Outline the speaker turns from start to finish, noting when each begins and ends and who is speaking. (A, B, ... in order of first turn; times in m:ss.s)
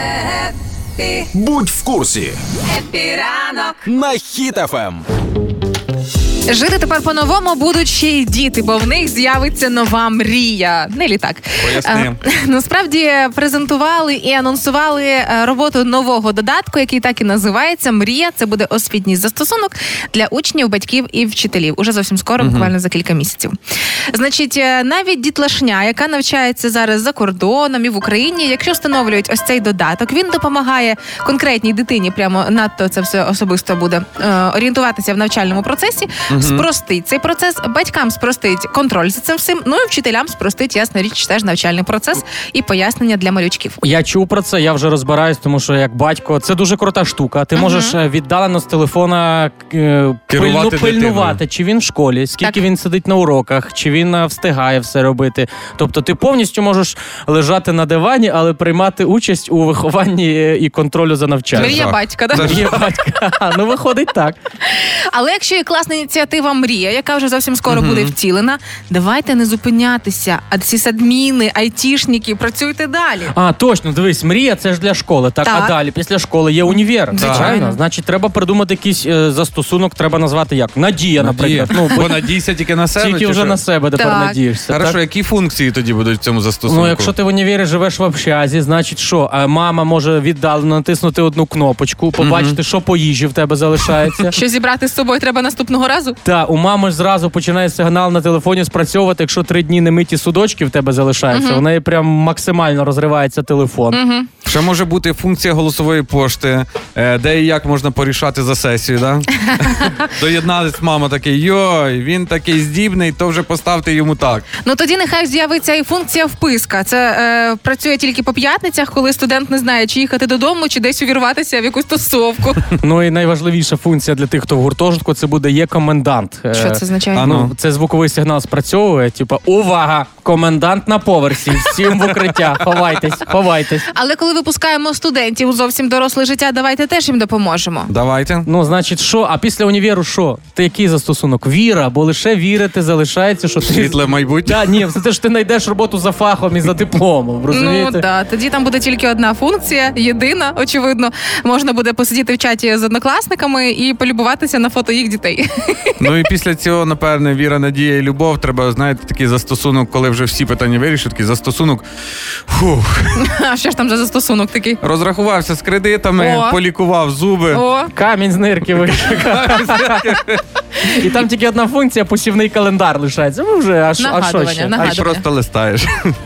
0:01.0-0:01.2 A
0:01.3-0:02.4 B
0:02.7-0:03.8 A
0:03.8-0:05.0 B
0:06.5-0:23.5 A
0:11.6-0:12.2 C
0:22.4-0:22.7 C
0:24.1-0:43.8 A
0:36.3-0:36.6 C
0:43.8-1:04.4 D
0:47.5-0:48.0 A
0:50.3-0:51.4 C
1:01.5-1:02.8 C
1:01.5-1:02.7 A
1:04.7-1:13.3 A
1:07.7-1:08.1 C
1:13.3-1:22.1 D
1:15.4-1:15.7 A
1:17.1-1:17.8 A
1:17.2-1:17.5 C
1:21.2-1:23.6 C
1:23.0-1:25.0 D
1:24.0-1:24.4 A
1:24.7-1:27.1 C
1:26.7-1:34.3 D
1:32.2-1:32.6 C
1:34.2-1:36.2 A
1:36.2-1:44.0 D
1:41.3-1:41.6 A
1:43.9-1:44.3 A
1:44.4-1:54.4 C
1:49.5-1:50.0 A
1:54.6-2:02.7 A
2:02.8-2:13.8 D
2:06.5-2:07.3 A
2:07.1-2:07.5 C
2:13.9-2:17.9 A
2:17.9-2:18.5 C
2:18.4-2:28.0 D
2:23.6-2:24.9 C
2:27.5-2:36.0 A
2:36.0-2:41.8 C
2:42.5-2:43.2 C
2:43.1-2:44.8 A
2:44.8-2:47.6 C
2:46.2-2:46.6 A
2:47.5-2:47.9 A
2:47.9-2:50.1 D
2:48.7-2:50.4 C
2:50.8-2:55.1 D
2:54.0-2:55.2 A
2:54.8-2:56.1 C